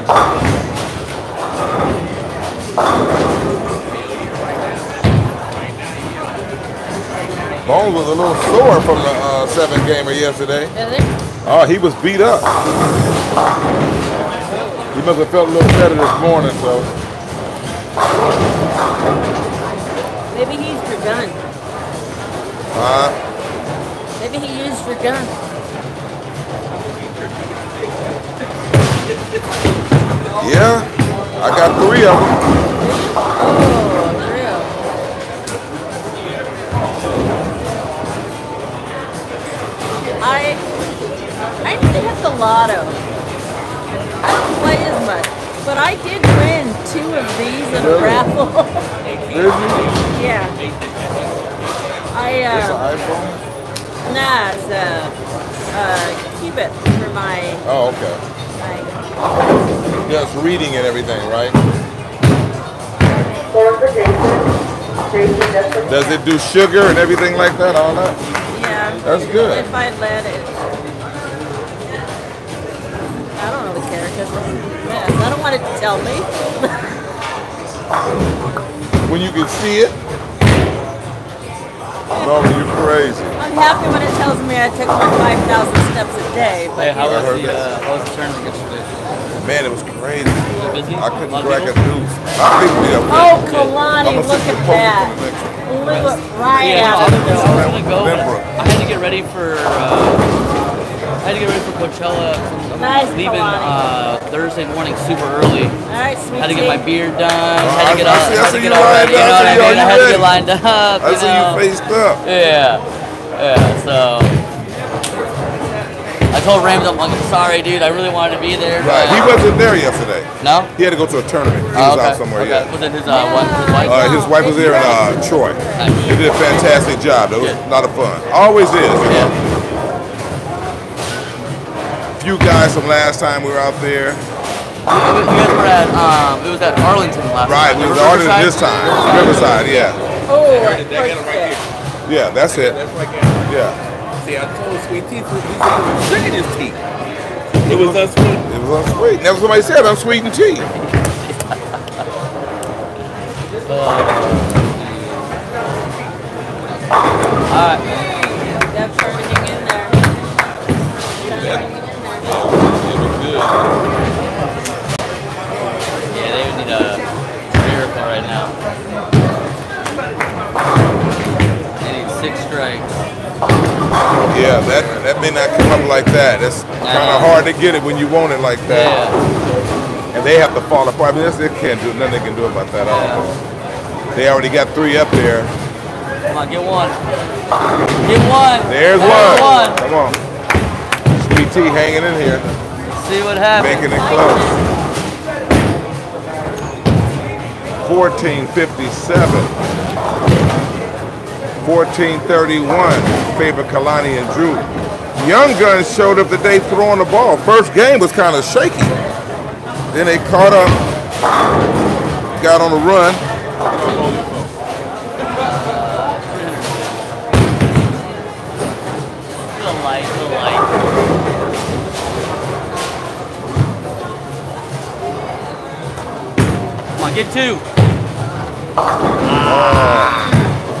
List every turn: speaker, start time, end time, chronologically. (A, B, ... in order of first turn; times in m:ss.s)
0:03.8-0:05.0 A
0:07.6-0:10.7 B
0:10.7-0:11.1 C
0:11.4-0:12.5 B
0:14.4-0:14.8 C
0:14.9-0:16.9 B
0:20.3-0:21.4 C
0:22.7-0:23.2 B
0:24.2-0:25.3 C
0:27.2-0:27.6 A
0:30.4-0:32.4 B
0:32.8-0:34.7 C
0:40.2-0:40.6 C
0:41.6-0:43.0 C
0:44.2-0:48.8 C
0:47.7-0:48.3 B
0:49.0-0:51.7 A
0:49.3-0:49.9 B
0:50.1-0:50.5 C
0:52.1-0:52.8 C
0:52.5-0:53.4 B
0:54.0-0:55.1 C
0:55.7-0:57.6 C
0:57.6-0:58.2 B
0:58.6-0:58.9 C
1:00.0-1:01.6 B
1:05.4-1:05.8 C
1:05.8-1:08.2 B
1:08.5-1:10.6 C
1:09.0-1:09.7 B
1:13.4-1:16.8 C
1:19.0-1:20.0 B
1:22.1-1:23.4 B
1:23.4-1:27.4 C
1:26.8-1:29.3 D
1:27.0-1:27.6 B
1:29.4-1:35.6 B
1:30.6-1:31.8 D
1:33.1-1:35.1 C
1:35.6-1:37.7 C
1:36.5-1:40.3 D
1:36.8-1:38.6 B
1:41.2-1:45.8 D
1:42.7-1:43.8 C
1:45.9-1:46.8 C
1:46.4-1:51.6 D
1:47.6-1:50.3 B
1:51.0-1:52.2 B
1:52.2-1:52.8 D
1:53.3-1:54.3 D
1:56.3-1:59.4 D
1:58.8-2:02.7 B
2:00.4-2:00.7 D
2:01.7-2:04.2 D
2:03.0-2:06.8 C
2:03.8-2:09.3 B
2:05.7-2:06.6 D
2:09.0-2:09.3 D
2:12.2-2:14.2 B
2:14.9-2:19.9 D
2:17.4-2:20.0 B
2:18.8-2:19.5 C
2:20.3-2:21.6 C
2:20.5-2:21.6 A
2:22.0-2:22.8 B
2:22.5-2:23.4 A
2:23.5-2:23.8 B
2:24.2-2:26.4 A
2:26.0-2:26.7 B
2:27.6-2:28.4 A
2:27.6-2:30.7 B
2:33.6-2:35.4 D
2:37.5-2:37.8 D
2:37.8-2:40.0 C
2:41.2-2:42.4 C
2:41.2-2:41.6 A
2:42.3-2:43.7 A
2:46.1-2:48.5 D
2:51.8-2:52.9 D
2:54.1-2:58.9 B
2:54.6-2:55.0 D
2:56.8-2:57.4 D
2:58.6-2:59.2 D
3:00.1-3:03.3 B
3:02.8-3:03.2 D
3:04.1-3:05.5 B
3:06.3-3:07.0 D
3:08.0-3:09.8 D
3:08.6-3:10.2 B
3:09.0-3:09.8 C
3:11.1-3:12.4 B
3:12.9-3:14.0 D
3:13.5-3:14.6 B
3:13.8-3:14.6 C
3:17.8-3:19.5 B
3:21.6-3:29.0 B
3:29.9-3:30.8 B
3:32.3-3:33.2 B
3:33.7-3:34.4 A
3:35.7-3:36.8 D
3:39.5-3:40.7 D
3:46.9-3:47.6 D
3:49.2-3:50.1 D
3:49.4-3:50.2 B